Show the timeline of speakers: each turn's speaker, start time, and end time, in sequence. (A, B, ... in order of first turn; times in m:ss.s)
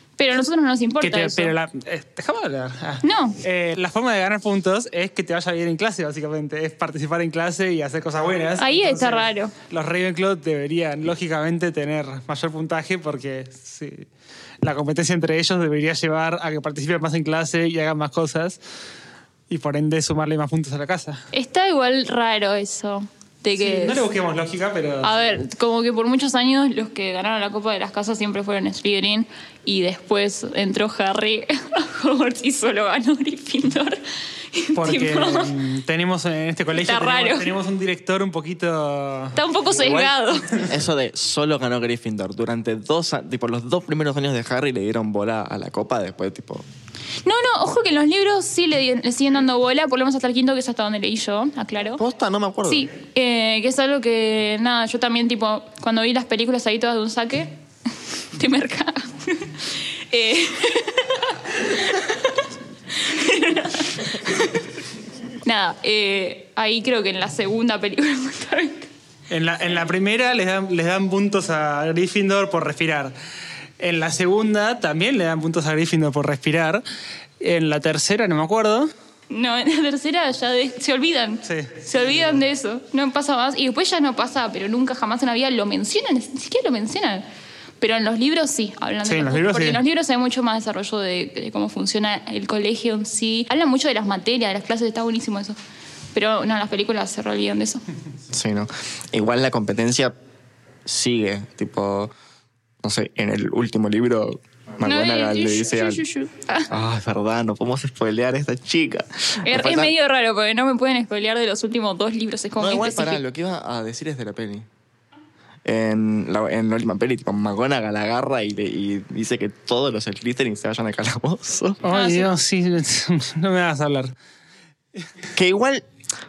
0:00.2-0:01.5 A
0:01.0-0:14.1 B
0:03.0-0:03.4 A
0:08.6-0:09.5 A
0:14.6-0:18.6 B
0:19.5-0:21.2 B
0:21.3-0:24.0 A
0:23.6-0:25.2 B
0:25.0-0:34.0 A
0:34.5-0:35.5 A
0:34.8-0:39.4 B
0:36.7-0:37.5 A
0:39.4-0:40.6 A
0:39.8-0:46.6 C
0:47.2-0:52.0 A
0:52.0-0:52.9 C
0:52.7-0:57.6 A
0:58.3-1:04.6 A
1:05.4-1:08.9 A
1:09.3-1:13.2 B
1:13.8-1:16.8 B
1:17.4-1:18.9 B
1:19.3-1:27.2 A
1:21.5-1:21.8 B
1:27.8-1:35.6 A
1:29.0-1:29.8 B
1:36.1-1:37.8 A
1:38.3-1:40.1 C
1:40.8-1:42.1 C
1:42.8-1:46.0 C
1:44.8-1:46.7 A
1:46.7-1:49.9 C
1:49.4-1:53.2 A
1:52.6-1:54.7 C
1:55.6-2:01.8 C
2:01.8-2:04.1 B
2:01.9-2:02.3 A
2:05.3-2:05.9 C